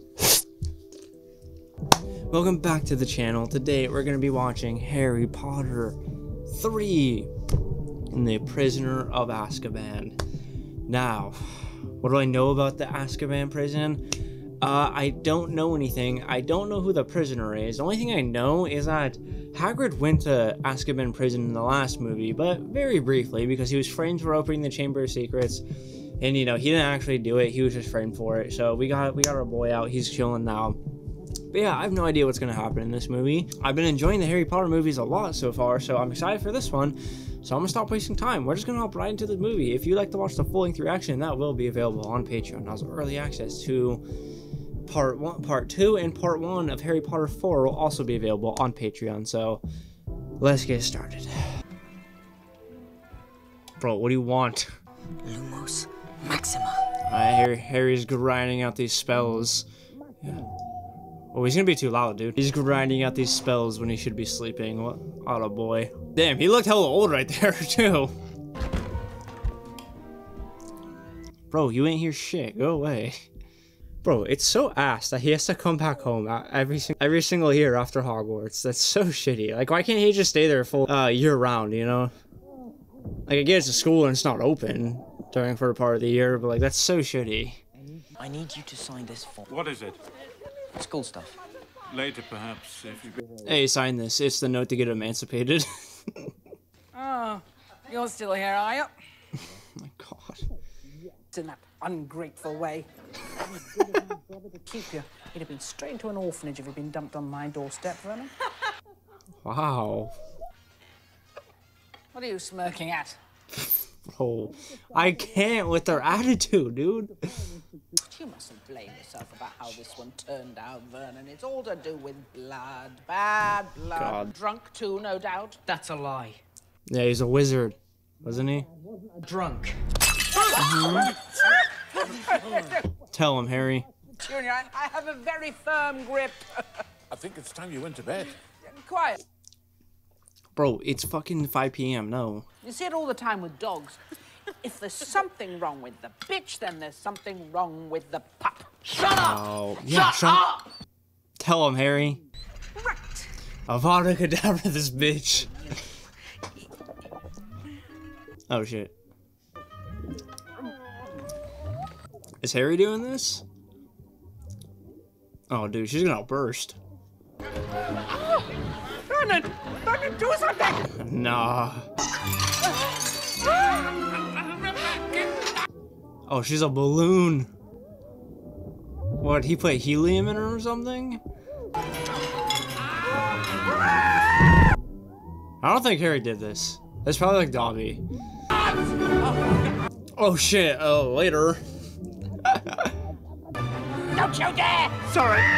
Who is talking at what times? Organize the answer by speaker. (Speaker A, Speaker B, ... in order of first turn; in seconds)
Speaker A: 2.3-6.0, 6.5-7.3, 8.1-10.2, 10.9-14.1, 14.6-25.6, 26.2-30.8, 31.5-44.0, 44.9-49.6, 50.4-51.5, 53.8-54.7, 57.1-59.6, 61.3-68.1, 71.5-73.2, 74.0-82.1, 83.3-87.6, 93.4-96.3, 99.8-100.4, 109.4-110.1, 114.1-117.1, 123.9-124.3, 126.9-128.7, 130.5-131.1, 133.1-133.9, 140.6-142.4, 149.1-150.4, 151.4-152.2, 153.7-155.5, 158.5-158.9, 162.4-163.4, 165.5-166.8, 170.8-171.9, 176.3-177.5, 179.2-181.2, 185.6-188.0, 190.2-191.6, 192.4-192.9
Speaker B: 55.2-56.8, 88.2-89.4, 90.7-91.4
Speaker C: 89.5-90.0, 91.9-93.1, 137.1-138.4
Speaker D: 96.9-98.9, 101.3-102.9, 104.6-108.3, 112.1-113.2, 118.0-125.8, 129.4-129.7, 132.0-132.8, 134.2-136.4, 138.7-139.2, 142.6-144.0, 144.6-150.6, 152.7-153.3, 169.1-170.8, 194.2-194.9